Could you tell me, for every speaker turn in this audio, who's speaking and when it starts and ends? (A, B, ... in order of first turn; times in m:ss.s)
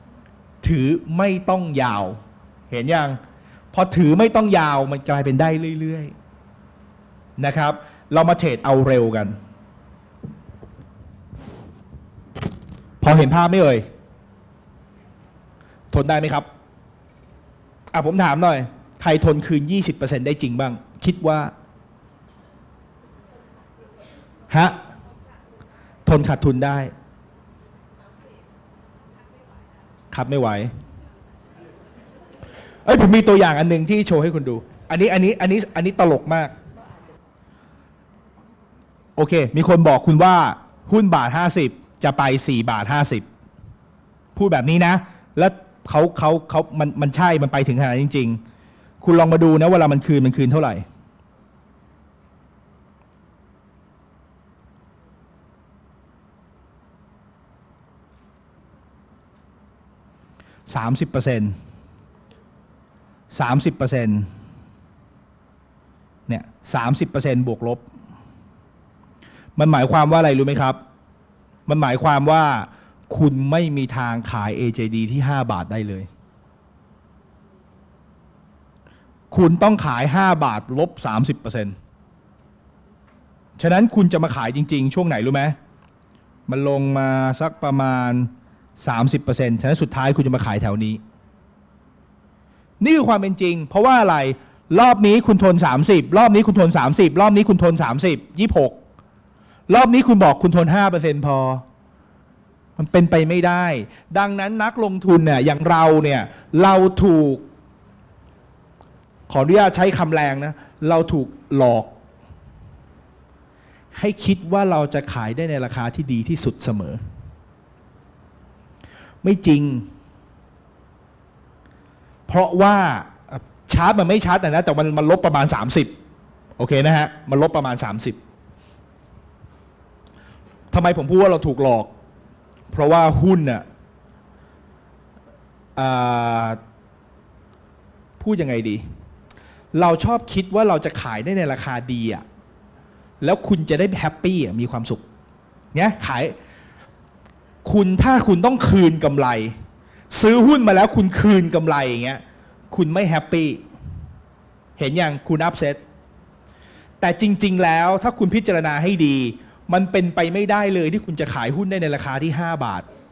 0:00.6-0:02.2 A
0:02.7-0:03.2 A
0:03.7-0:06.1 A
0:07.4-0:09.4 A
0:13.0-0:13.8 A
0:15.9-0:16.5 A
0:17.9-0:21.5 A
0:24.5-0:24.8 A
0:26.1-0:26.9 A
0:30.1-0:30.7 A
0:32.8-0:36.5 A
0:39.2-0:43.2 A
0:44.4-0:48.4 A
0:49.0-0:50.8 A
1:00.7-1:01.6 A
1:03.3-1:04.3 A
1:06.3-1:07.8 A
1:09.6-1:10.8 A
1:11.7-1:16.1 A
1:19.3-1:21.8 A
1:23.6-1:25.6 A
1:26.5-1:31.0 A
1:32.8-1:38.8 A
1:39.7-1:41.6 A
1:42.8-1:47.4 A
1:49.3-1:51.9 A
1:53.9-1:57.0 A
1:59.2-1:59.9 A
2:02.3-2:05.9 A
2:06.6-2:08.2 A
2:10.7-2:11.9 A
2:12.7-2:13.6 A
2:15.8-2:16.6 A
2:18.2-2:18.8 A
2:19.7-2:22.2 A
2:23.2-2:25.0 A
2:25.7-2:26.4 A
2:27.6-2:29.5 A
2:30.1-2:33.6 A
2:34.8-2:35.8 A
2:37.0-2:42.9 A